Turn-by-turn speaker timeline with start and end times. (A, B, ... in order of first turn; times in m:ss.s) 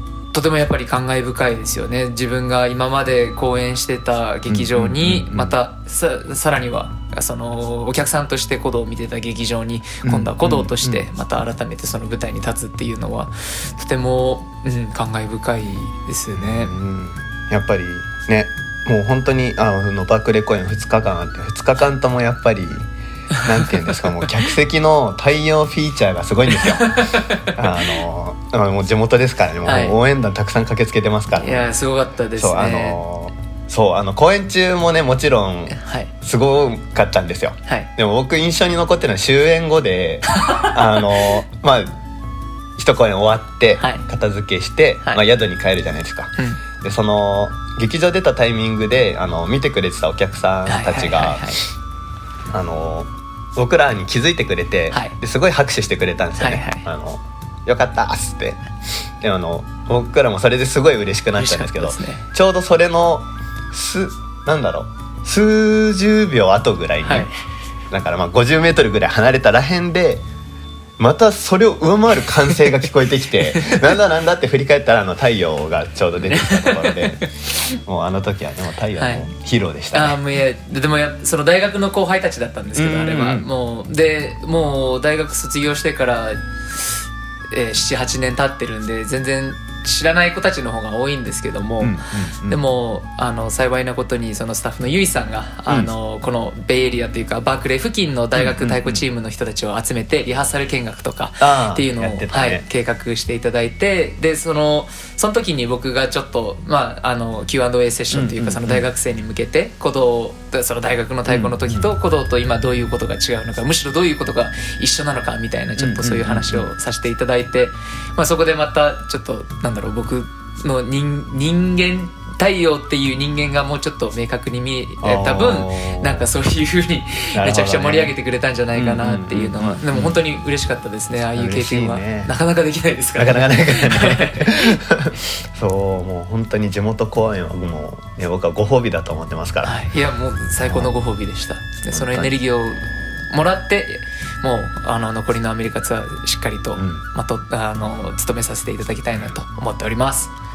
0:00.3-0:16.7 A
0:04.5-0:05.6 B
0:10.0-0:11.1 B
0:16.3-0:31.7 B
0:26.6-0:27.9 A
0:29.6-0:30.0 A
0:31.4-0:33.0 A
0:32.4-0:42.0 B
0:35.7-0:36.1 A
0:40.3-0:40.7 A
0:42.8-0:51.6 B
0:43.8-0:44.1 A
0:50.7-0:51.6 A
0:52.5-0:58.6 B
0:54.9-0:55.2 A
0:56.4-0:56.9 A
0:59.2-1:07.3 B
1:01.4-1:02.2 A
1:07.0-1:07.3 A
1:07.9-1:10.2 B
1:11.0-1:20.2 B
1:13.6-1:13.9 A
1:16.2-1:17.2 A
1:19.0-1:19.2 A
1:19.9-1:26.9 A
1:22.8-1:23.5 B
1:27.5-2:14.8 A
1:31.8-1:32.6 B
1:38.4-1:39.0 B
1:41.4-1:42.6 B
1:48.1-1:48.9 B
1:51.3-1:51.9 B
1:55.8-1:56.7 B
2:05.0-2:06.3 B
2:07.3-2:08.1 B
2:08.8-2:10.2 B
2:11.3-2:12.3 B
2:13.2-2:19.8 B
2:19.6-2:30.3 A
2:20.6-2:20.9 B
2:21.9-2:22.4 B
2:26.8-2:27.0 B